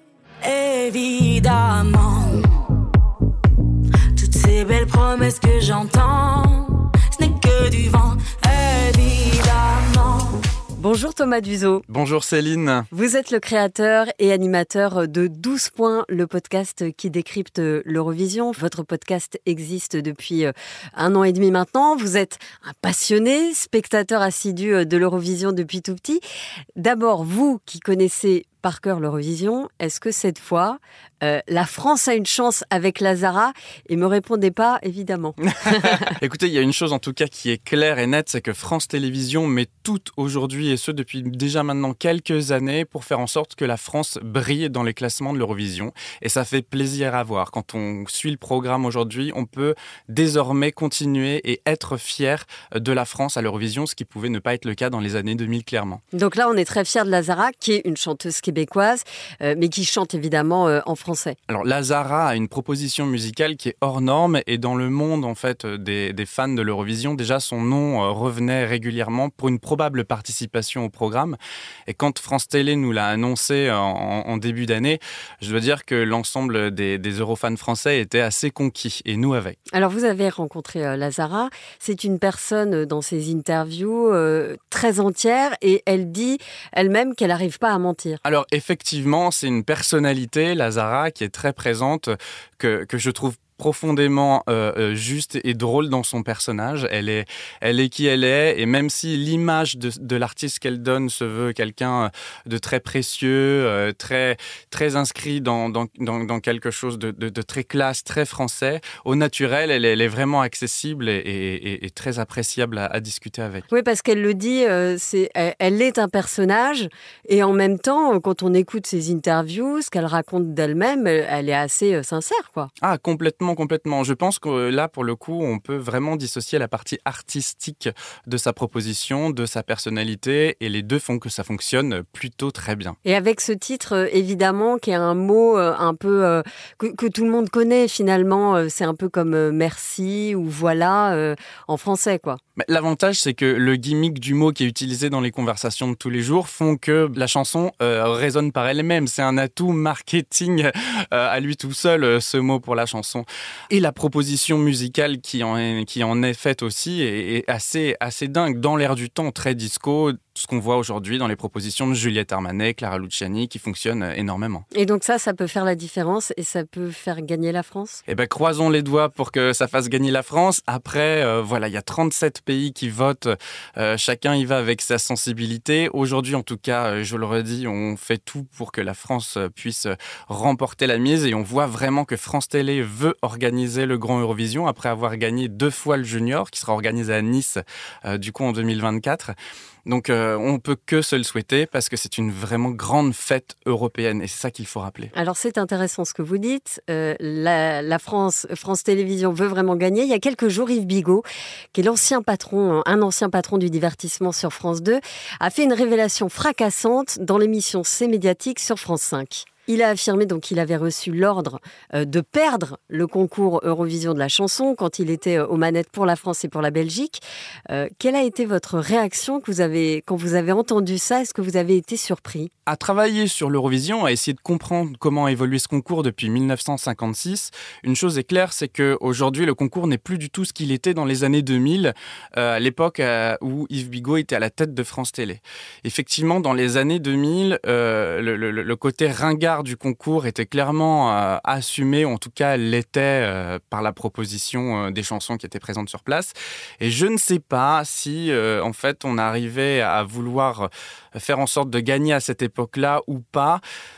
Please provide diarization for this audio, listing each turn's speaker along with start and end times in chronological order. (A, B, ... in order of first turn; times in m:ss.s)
0:00.4-0:02.6 A
0:04.2-0:10.4 A
0:10.8-0:11.8 B
0:11.9-0:12.9 C
0:12.9-0:26.2 B
0:26.8-0:36.1 B
0:35.8-0:56.0 C
0:56.1-1:01.4 B
1:01.5-1:19.6 C
1:19.7-1:28.2 B
1:28.2-1:53.6 C
1:53.7-2:02.7 B
2:02.8-2:13.0 C
2:13.0-2:22.4 B
2:22.6-2:44.7 C
2:44.7-2:48.0 B
2:48.1-3:09.3 C
3:09.8-3:15.1 C
3:15.1-3:42.5 B
3:42.7-4:13.6 C